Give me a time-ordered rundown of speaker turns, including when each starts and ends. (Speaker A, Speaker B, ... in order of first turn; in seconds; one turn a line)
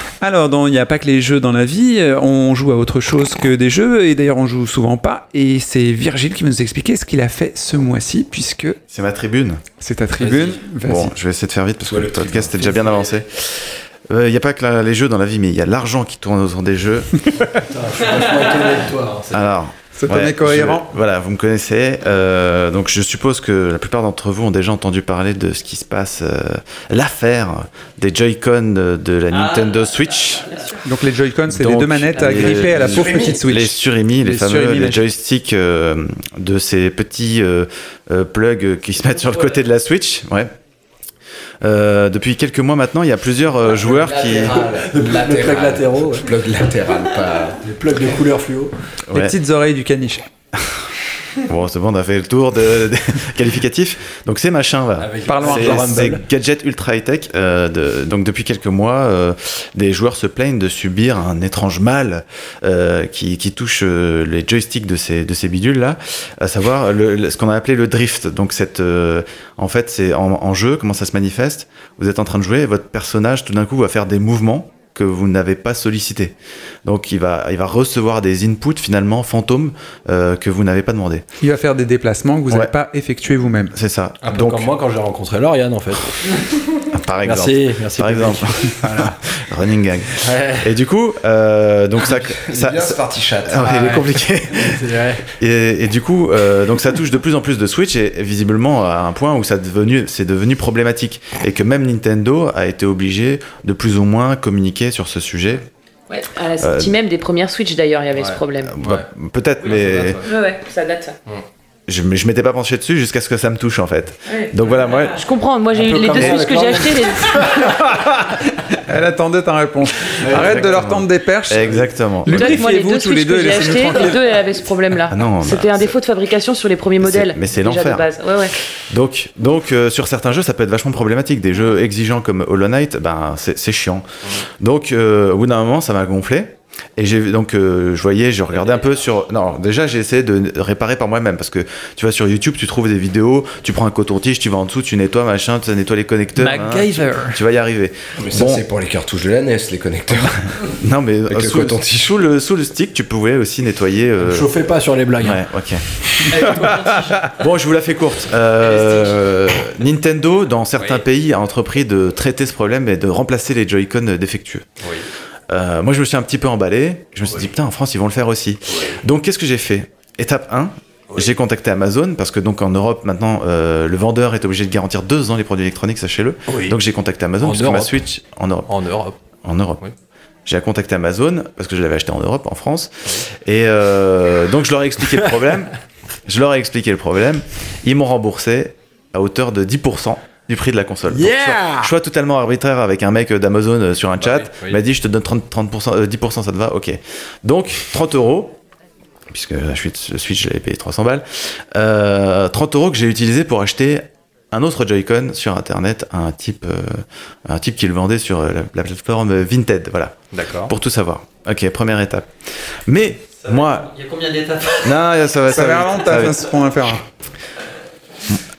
Speaker A: 0.2-8.8
Speaker B: 8.9-9.6
Speaker A: 9.8-11.1
Speaker C: 10.2-10.7
Speaker B: 10.7-17.3
Speaker D: 11.8-13.0
Speaker C: 17.6-19.6
Speaker B: 19.3-30.6
Speaker A: 19.9-20.9
Speaker E: 29.3-30.6
Speaker A: 30.8-35.0
Speaker B: 31.5-40.5
Speaker D: 32.7-33.4
Speaker B: 41.6-44.7
Speaker D: 43.8-47.6
Speaker C: 43.9-46.3
Speaker C: 47.6-48.7
Speaker B: 49.1-49.4
Speaker A: 49.1-50.2
Speaker B: 51.4-76.3
Speaker C: 55.0-56.2
Speaker A: 55.2-56.1
Speaker B: 76.8-81.2
Speaker A: 81.4-83.7
Speaker B: 83.7-84.7
Speaker C: 84.2-89.1
Speaker B: 86.9-105.7
Speaker C: 90.2-90.7
Speaker D: 92.3-93.8
Speaker C: 93.6-95.2
Speaker F: 106.1-108.7
Speaker B: 106.6-106.9
Speaker C: 108.1-109.1
Speaker B: 108.7-110.2
Speaker C: 109.6-110.3
Speaker F: 110.2-111.2
Speaker B: 111.9-115.2
Speaker F: 115.1-117.4
Speaker C: 115.7-117.5
Speaker A: 117.5-124.3
Speaker C: 120.2-120.8
Speaker B: 120.3-122.6
Speaker F: 122.2-128.6
Speaker B: 125.1-125.9
Speaker B: 127.0-128.1
Speaker B: 128.9-134.1
Speaker B: 134.6-148.6
Speaker E: 146.3-147.4
Speaker D: 148.2-150.5
Speaker B: 150.6-154.5
Speaker D: 151.3-152.1
Speaker C: 154.2-155.4
Speaker B: 155.2-164.7
Speaker E: 156.3-157.3
Speaker B: 165.5-178.7
Speaker C: 176.5-176.8
Speaker C: 177.4-178.0
Speaker C: 178.7-179.2
Speaker B: 179.4-179.8
Speaker B: 180.4-185.7
Speaker B: 186.3-198.6
Speaker C: 191.1-191.9
Speaker C: 194.2-194.8
Speaker B: 199.3-212.3
Speaker C: 210.3-210.7
Speaker B: 212.9-213.9
Speaker E: 213.4-214.9
Speaker B: 214.8-216.4
Speaker A: 215.5-217.0